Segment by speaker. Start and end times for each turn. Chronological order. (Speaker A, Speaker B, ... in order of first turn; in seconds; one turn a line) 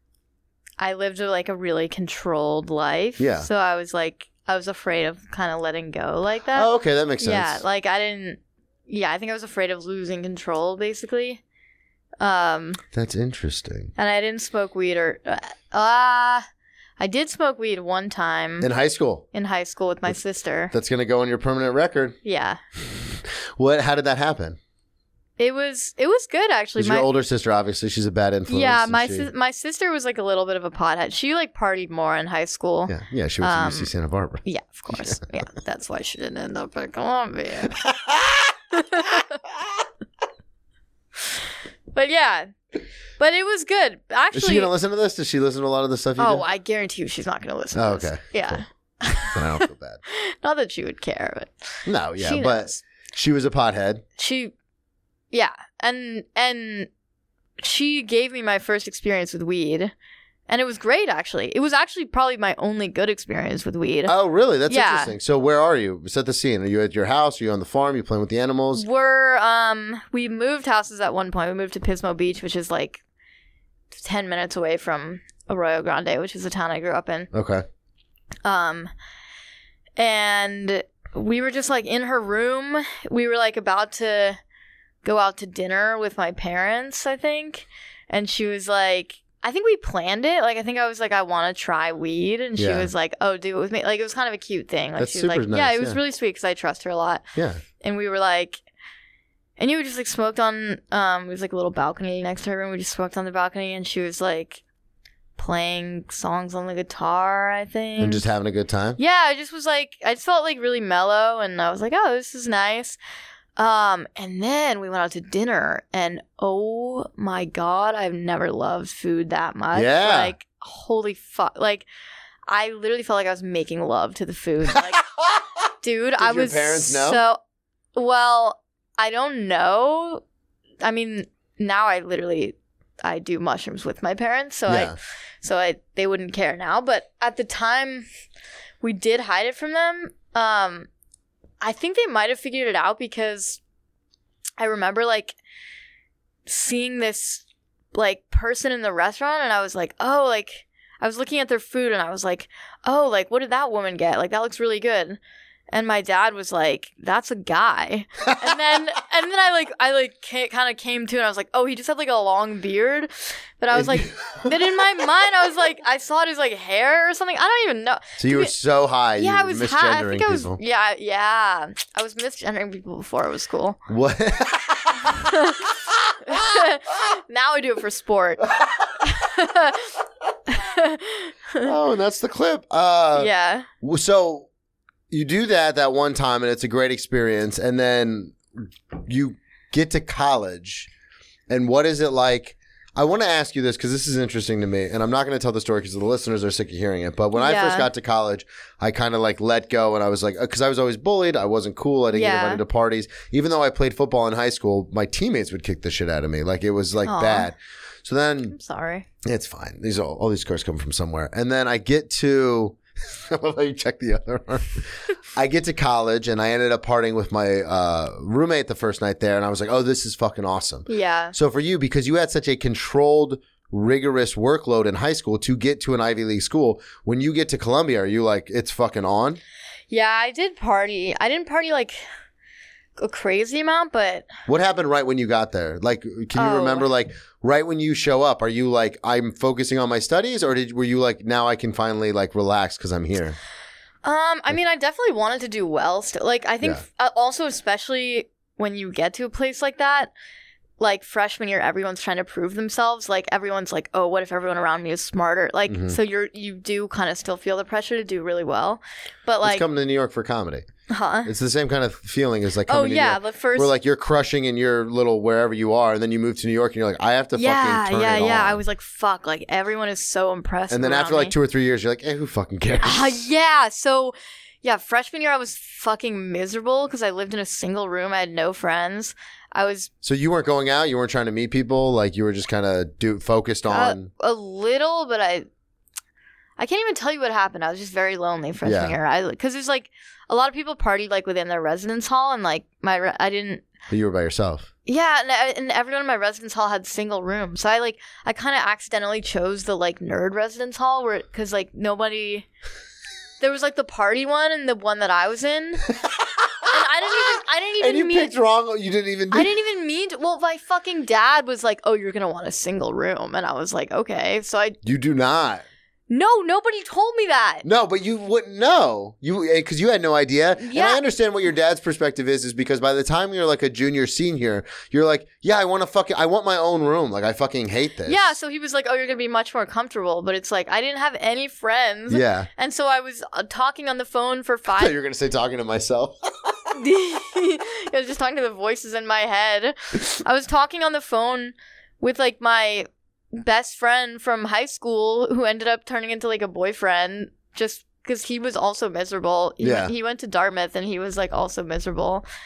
Speaker A: 0.8-6.7
Speaker B: 3.2-3.5
Speaker B: 6.5-7.6
Speaker A: 7.2-11.4
Speaker A: 12.2-12.8
Speaker B: 12.9-13.9
Speaker A: 14.0-16.4
Speaker A: 17.0-18.7
Speaker B: 18.6-19.2
Speaker A: 19.3-20.7
Speaker B: 20.7-22.1
Speaker A: 22.2-22.6
Speaker B: 22.9-24.6
Speaker A: 25.4-27.1
Speaker B: 26.8-29.3
Speaker A: 28.5-33.9
Speaker B: 32.9-35.2
Speaker A: 34.5-37.8
Speaker B: 37.7-38.5
Speaker A: 38.7-39.4
Speaker A: 41.9-42.5
Speaker A: 43.2-44.7
Speaker B: 44.3-46.4
Speaker A: 46.2-52.8
Speaker B: 47.8-48.6
Speaker B: 49.3-50.0
Speaker B: 51.9-54.0
Speaker A: 54.2-54.5
Speaker A: 55.3-56.9
Speaker A: 57.6-59.9
Speaker A: 60.5-64.1
Speaker B: 64.1-68.8
Speaker A: 64.7-65.1
Speaker A: 68.7-73.0
Speaker A: 73.9-77.3
Speaker B: 77.3-77.6
Speaker A: 78.5-78.9
Speaker A: 80.0-84.4
Speaker A: 85.0-97.3
Speaker B: 92.6-92.9
Speaker B: 95.0-96.0
Speaker B: 97.4-97.6
Speaker A: 97.8-98.6
Speaker A: 99.6-104.6
Speaker A: 105.4-108.3
Speaker B: 108.0-109.0
Speaker A: 109.0-113.0
Speaker A: 113.6-121.9
Speaker B: 119.7-120.3
Speaker A: 122.5-125.0
Speaker B: 124.7-125.4
Speaker A: 125.8-127.4
Speaker B: 126.2-127.2
Speaker A: 128.0-130.2
Speaker A: 130.8-138.1
Speaker B: 134.7-135.0
Speaker A: 138.8-140.9
Speaker A: 141.6-143.6
Speaker A: 144.6-145.4
Speaker A: 146.5-168.5
Speaker B: 163.7-164.5
Speaker B: 168.2-170.6
Speaker A: 169.2-173.8
Speaker B: 173.9-176.6
Speaker A: 175.1-175.7
Speaker A: 176.3-178.4
Speaker A: 179.0-180.0
Speaker A: 180.5-181.7
Speaker B: 181.6-183.3
Speaker A: 183.2-183.7
Speaker B: 183.8-184.5
Speaker B: 185.1-190.9
Speaker B: 191.5-208.6
Speaker A: 197.3-197.9
Speaker A: 202.1-202.6
Speaker A: 207.0-207.5
Speaker A: 208.5-209.1
Speaker B: 209.2-229.4
Speaker A: 220.9-221.3
Speaker A: 229.9-232.0
Speaker A: 233.0-234.3
Speaker B: 234.5-243.4
Speaker A: 236.3-236.9
Speaker A: 244.0-250.1
Speaker A: 250.8-259.6
Speaker B: 255.7-256.0
Speaker B: 259.4-260.7
Speaker A: 260.9-261.3
Speaker B: 261.2-268.6
Speaker A: 262.7-263.7
Speaker A: 267.4-271.3
Speaker B: 270.7-273.3
Speaker A: 272.8-279.9
Speaker B: 280.0-284.1
Speaker A: 283.7-285.5
Speaker A: 286.6-293.7
Speaker B: 288.6-289.0
Speaker B: 293.9-294.7
Speaker A: 294.9-302.5
Speaker A: 303.4-305.9
Speaker B: 306.0-306.7
Speaker A: 306.7-308.3
Speaker B: 307.8-309.5
Speaker A: 309.3-314.8
Speaker B: 314.8-315.6
Speaker A: 316.1-317.6
Speaker B: 317.6-328.3
Speaker A: 320.6-321.0
Speaker A: 328.1-334.9
Speaker B: 332.1-332.5
Speaker B: 334.8-336.7
Speaker A: 336.8-352.2
Speaker B: 349.6-349.9